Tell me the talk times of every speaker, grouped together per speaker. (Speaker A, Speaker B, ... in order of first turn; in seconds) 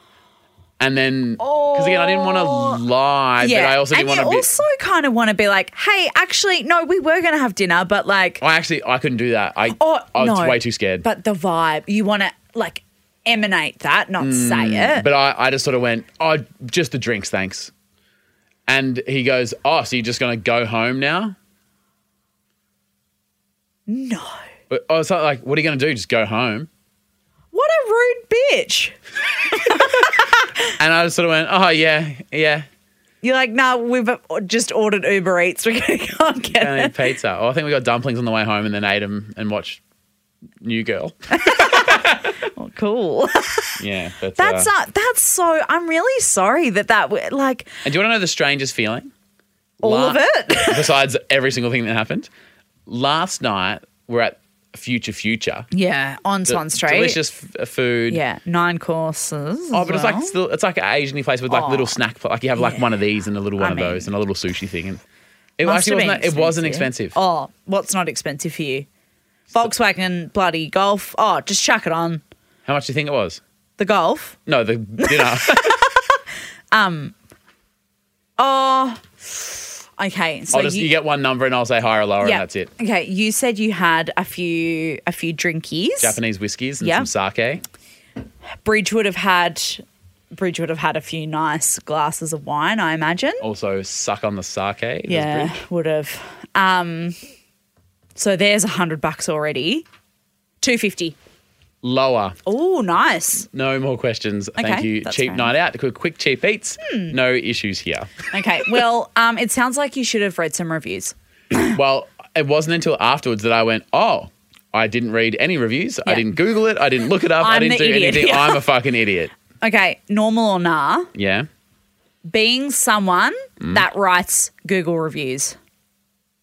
Speaker A: 0.8-4.5, 8.4-11.0, 14.2-17.7, 18.7-21.4, 24.7-26.7, 30.8-32.7, 36.6-39.8, 40.6-42.3, 43.8-44.7, 47.8-49.1, 49.8-52.3, 52.9-55.7, 56.5-58.2, 59.7-65.0, 65.6-67.1, 72.7-73.4, 74.5-75.8, 80.5-82.7, 86.0-87.6, 93.4-95.5, 101.8-102.4, 103.5-108.1, 111.7-119.3, 121.1-121.5
Speaker B: 1.4-2.8, 3.4-8.4, 9.7-15.1, 23.9-24.4, 27.5-28.9, 29.5-30.4, 33.2-36.9, 41.3-43.8, 44.4-47.8, 49.8-50.9, 55.7-57.2, 58.1-60.3, 61.5-62.0, 62.5-62.9, 63.6-64.1, 65.6-68.8, 69.5-72.2, 73.8-74.4, 75.0-76.2, 76.7-77.1, 78.4-80.9, 82.2-86.2, 86.8-87.1, 88.6-93.4, 95.1-97.2, 98.2-99.8, 100.6-101.2, 102.5-103.5, 104.6-105.5, 106.8-107.1, 108.3-111.7, 116.0-116.3, 117.4-118.7, 119.6-121.1, 122.2-125.6